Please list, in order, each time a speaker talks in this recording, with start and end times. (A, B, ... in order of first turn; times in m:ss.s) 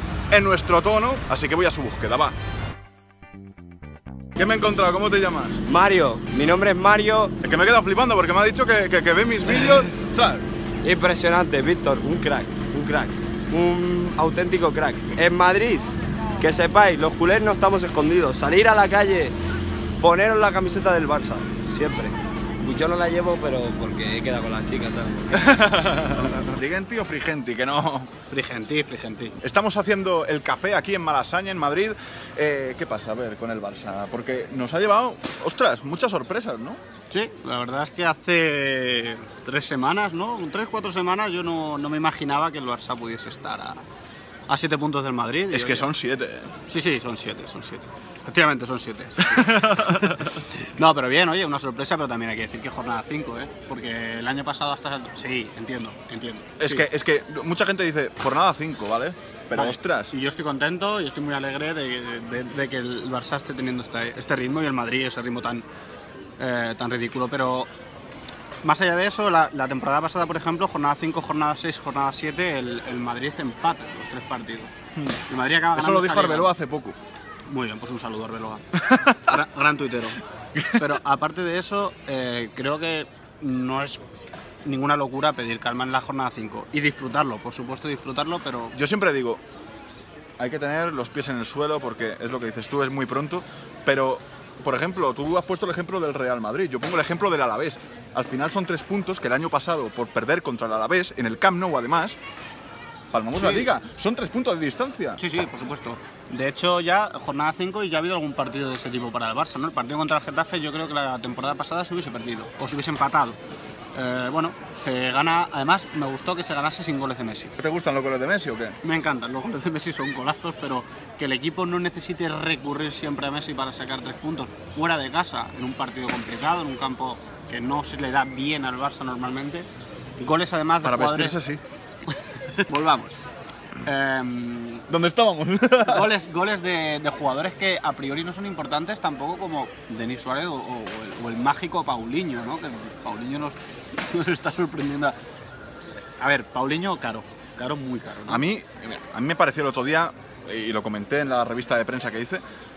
0:00.3-0:02.4 A
0:04.4-0:05.6 A
0:05.7-0:07.3 B
0:07.4-0:10.4 A
0:10.8-0:19.3 B
0:20.0-0:25.3 B
0:25.4-0:28.1 A
0:28.3-0:29.4 C
0:29.4-0:36.8 A
0:37.1-0:43.8 C
0:44.5-0:45.9 C
0:45.5-0:46.5 A
0:46.7-0:56.9 C
0:49.2-0:50.3 A
0:56.6-1:00.1 A
0:59.5-1:05.6 C
1:06.4-1:07.7 C
1:08.6-1:14.7 C
1:15.3-1:16.5 C
1:15.7-1:17.0 A
1:17.5-1:20.2 C
1:18.9-1:19.2 A
1:20.7-1:24.0 C
1:24.6-1:28.8 C
1:28.8-1:29.4 A
1:30.4-1:42.2 A
1:43.1-1:45.2 A
1:43.4-1:43.7 C
1:45.2-1:53.4 C
1:54.0-1:57.5 C
1:57.6-1:58.8 A
1:58.8-2:09.7 C
2:10.2-2:11.4 C
2:10.8-2:11.6 A
2:12.6-2:13.2 C
2:13.8-2:14.8 C
2:14.9-2:16.1 A
2:15.8-2:25.2 C
2:26.2-2:28.4 C
2:28.3-2:32.4 A